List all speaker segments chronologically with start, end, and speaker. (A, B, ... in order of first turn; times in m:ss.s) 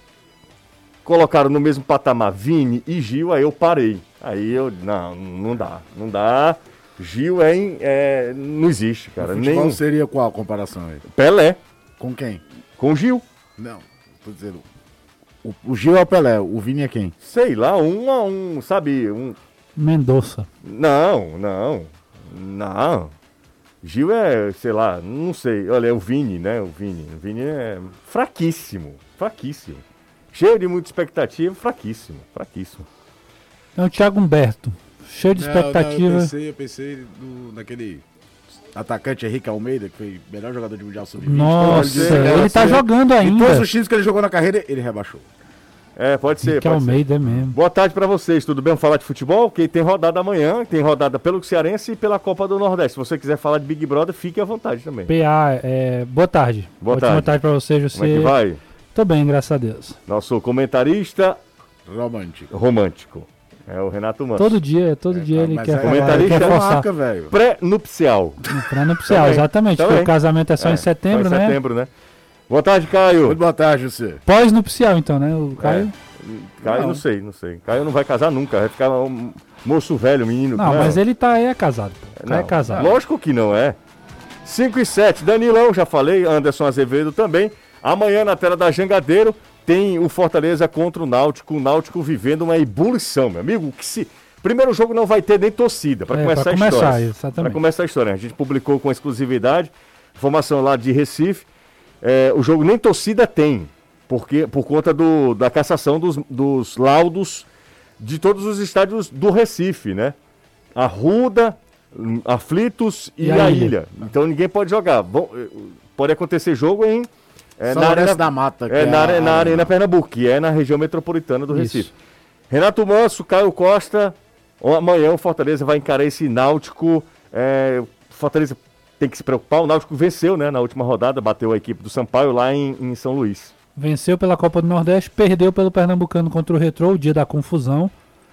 0:01.0-0:09.8 A
0:09.2-0:11.0 B
0:11.1-0:11.6 A
0:12.0-0:12.4 B
0:12.8-0:13.2 A
0:13.6-0:14.7 B
0:15.4-0:17.1 B
0:17.2-0:19.4 A
0:19.8-0:20.5 C
0:20.6-0:23.1 A
0:23.8-0:29.8 A
0:30.3-0:32.9 A
0:33.8-0:36.3 C
0:35.4-0:38.0 B
0:38.7-0:45.2 B
0:41.2-0:43.7 C
0:41.6-0:42.8 A
0:46.0-0:55.1 A
0:46.4-0:47.6 C
0:55.1-0:58.3 C
0:56.8-0:57.4 A
0:57.9-0:58.6 A
0:58.9-1:00.0 C
1:00.1-1:01.4 A
1:01.9-1:02.5 B
1:02.5-1:04.6 A
1:04.4-1:06.9 C
1:05.1-1:07.4 B
1:05.8-1:06.6 A
1:07.3-1:08.4 A
1:08.5-1:11.6 C
1:09.1-1:11.9 A
1:12.5-1:13.4 A
1:13.2-1:14.2 B
1:14.2-1:15.9 C
1:15.6-1:21.0 A
1:16.6-1:17.0 B
1:20.6-1:22.9 C
1:22.2-1:23.8 A
1:22.6-1:23.0 B
1:24.4-1:41.5 A
1:36.1-1:37.6 C
1:42.0-1:47.5 A
1:48.0-1:50.2 A
1:50.8-2:01.9 A
1:53.2-1:53.7 C
1:57.6-1:59.7 B
2:01.5-2:01.9 C
2:02.5-2:13.5 A
2:13.8-2:17.9 C